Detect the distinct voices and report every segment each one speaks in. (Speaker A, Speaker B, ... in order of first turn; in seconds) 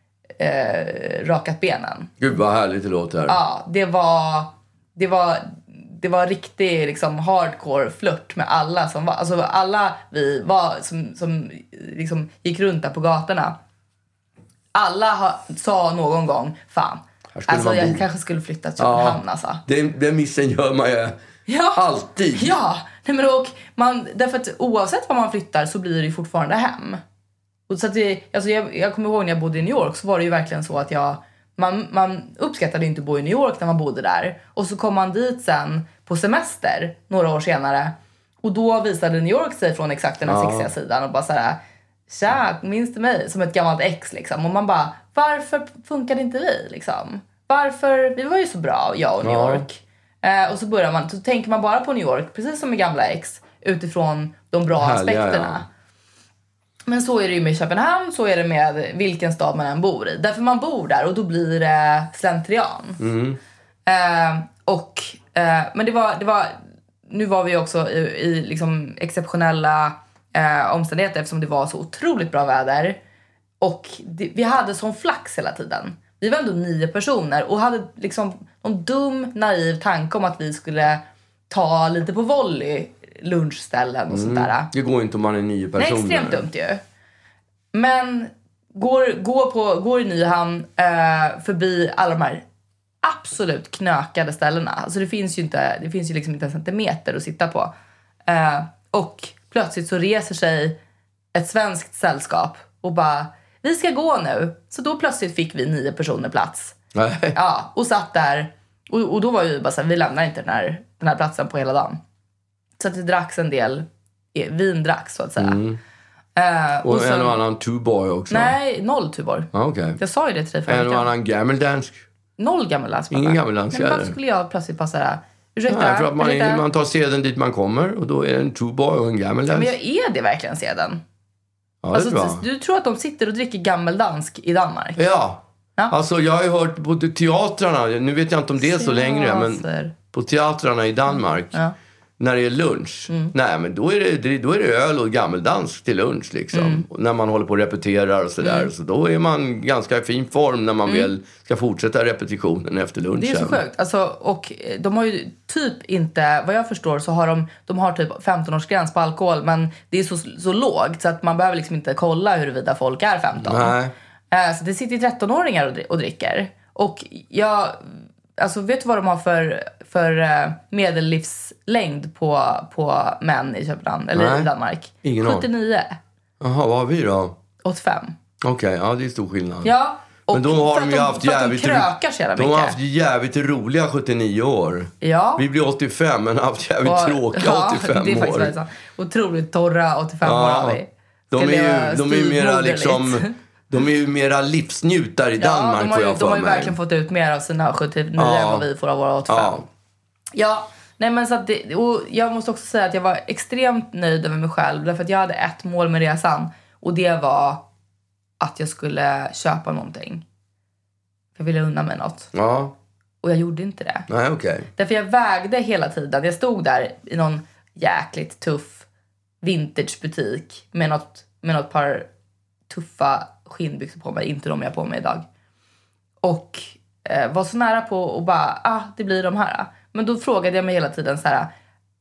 Speaker A: 0.4-2.1, 3.2-13.6, 14.7-19.6, 21.5-21.8, 22.3-27.0, 27.7-55.6, 56.9-63.0, 63.9-73.0, 73.6-84.7, 85.8-86.8, 87.7-92.4, 93.0-97.7, 98.3-100.8, 101.3-106.8, 107.3-112.0, 112.8-115.6, 116.3-117.4, 118.3-121.1, 122.4-126.6, 129.5-131.0, 131.9-135.1, 138.6-139.9, 146.5-146.8, 148.4-148.7, 150.9-151.1, 153.2-163.8, 164.3-167.8, 168.4-176.0, 177.6-178.1, 179.6-182.8, 185.0-185.4, 186.8-193.3, 195.4-199.6, 200.3-207.6, 208.4-210.2, 211.3-212.3, 213.2-214.1, 214.7-218.8, 219.4-222.1, 222.7-225.2, 226.2-231.5
Speaker B: 2.2-3.4, 17.3-18.0, 18.8-21.2, 21.7-22.5, 40.2-40.7, 49.2-49.6, 54.7-55.6, 63.0-63.4, 84.1-86.5, 106.9-107.4, 115.4-115.8, 116.8-118.6, 119.5-120.0, 120.7-122.0, 123.1-124.2, 125.7-129.7, 131.8-132.4, 134.9-141.6, 142.2-153.6, 163.4-163.9, 174.1-174.5, 175.0-175.5, 176.4-177.4, 178.4-179.7, 180.3-188.6, 190.2-190.8, 191.3-196.8, 198.2-198.7, 199.3-199.7, 212.3-212.7, 214.1-214.7